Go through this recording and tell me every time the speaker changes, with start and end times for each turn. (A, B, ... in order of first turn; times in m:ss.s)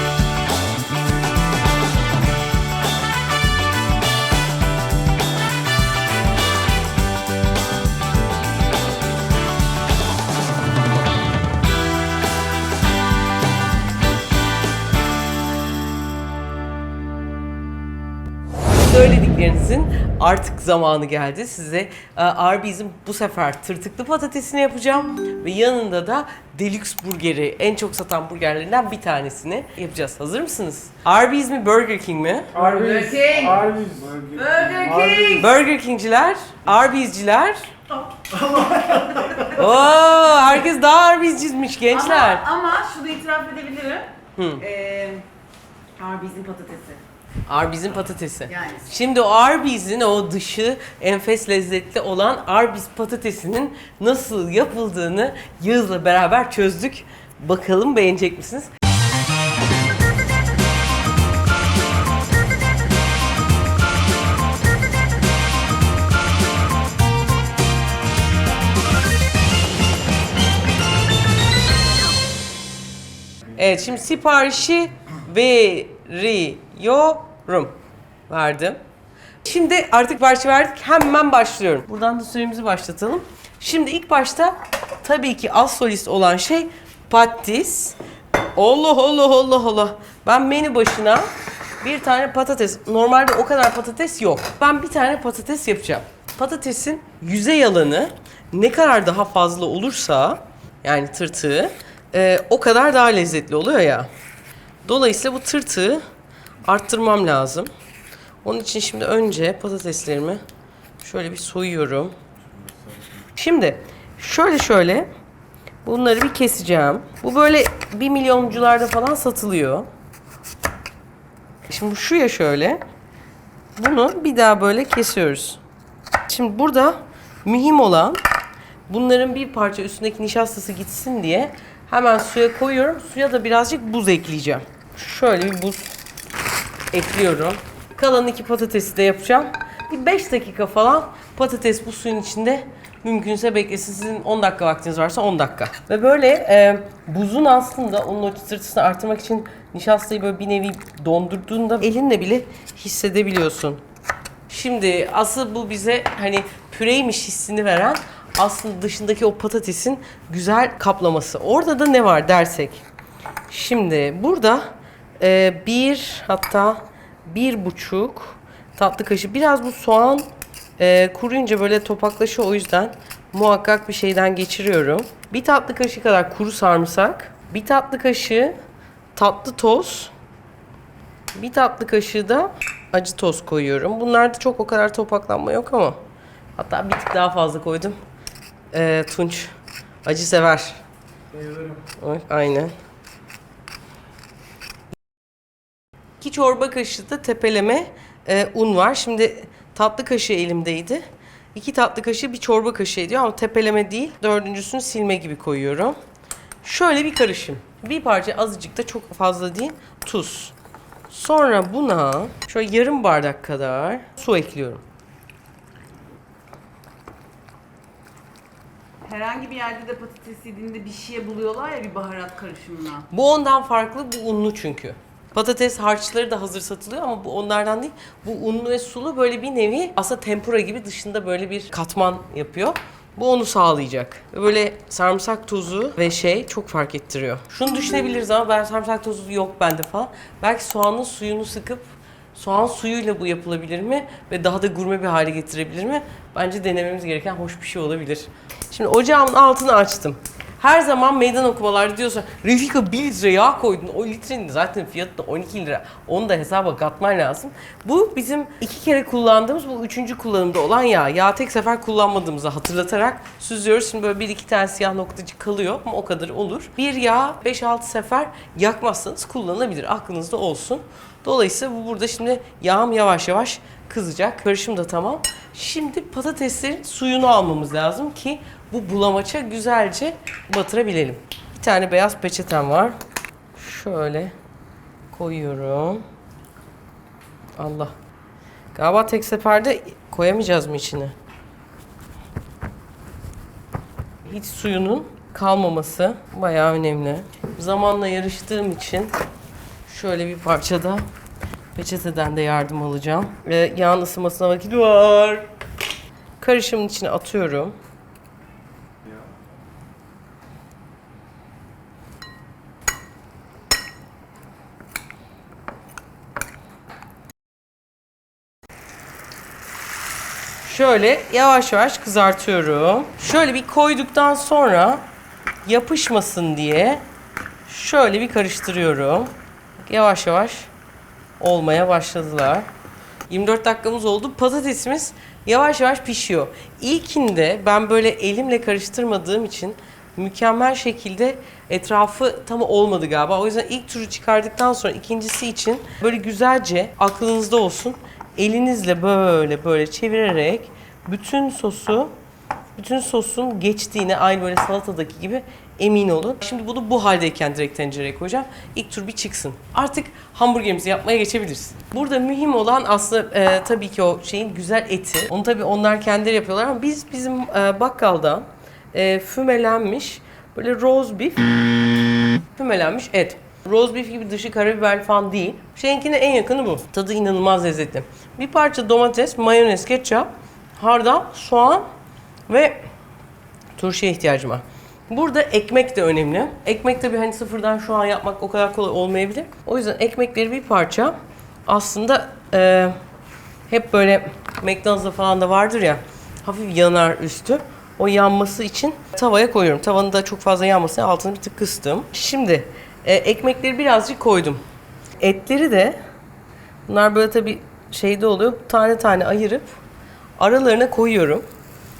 0:18.8-0:33.2 A
0:32.5-0:35.5 B
0:32.7-0:33.6 C
0:34.3-0:35.5 C
0:35.3-0:37.7 A
0:38.5-0:39.2 B
0:38.6-0:39.4 C
0:39.4-0:42.5 A
0:41.9-0:44.1 C
0:44.4-0:44.6 A
0:44.6-0:45.3 C
0:46.0-0:47.0 C
0:47.5-0:58.7 A
0:48.6-0:48.8 C
1:13.5-1:17.7 A
1:18.3-1:18.8 A
1:19.4-1:28.0 A
1:28.6-1:31.3 A
1:31.8-1:44.1 A
1:44.8-1:46.0 A
1:46.6-1:47.7 A
1:48.4-1:50.4 A
1:51.0-1:52.2 A
1:53.4-1:55.1 A
1:55.8-1:59.9 A
2:01.7-2:02.8 A
2:03.8-2:05.6 A
2:06.3-2:08.2 A
2:08.9-2:15.9 A
2:16.9-2:33.8 A
2:34.5-2:42.8 A
2:43.5-2:58.6 A
2:59.2-3:00.1 A
3:01.4-3:06.0 A
3:06.6-3:08.0 A
3:08.7-3:10.8 A
3:11.3-3:11.8 B
3:12.0-3:12.8 A
3:16.2-3:26.0 A
3:26.6-3:30.6 A
3:31.1-3:34.8 A
3:39.0-3:43.1 C
3:43.1-4:43.0 A
4:43.6-4:44.3 A
4:45.1-4:46.0 A
4:47.6-4:47.9 A
4:48.7-4:51.2 A
4:54.2-4:59.1 A
4:59.9-5:01.1 A
5:01.8-5:05.5 A
5:06.4-5:07.8 A
5:20.6-5:25.0 A
5:25.6-5:27.0 A
5:27.7-5:30.7 A
5:31.4-5:32.7 A
5:33.3-5:52.1 A
5:52.8-6:11.6 A
6:12.6-6:21.9 A
6:22.5-6:22.8 A
6:23.8-6:33.0 A
6:33.7-6:44.6 A
6:45.2-6:46.0 A
6:46.9-6:49.8 A
6:50.4-6:51.5 A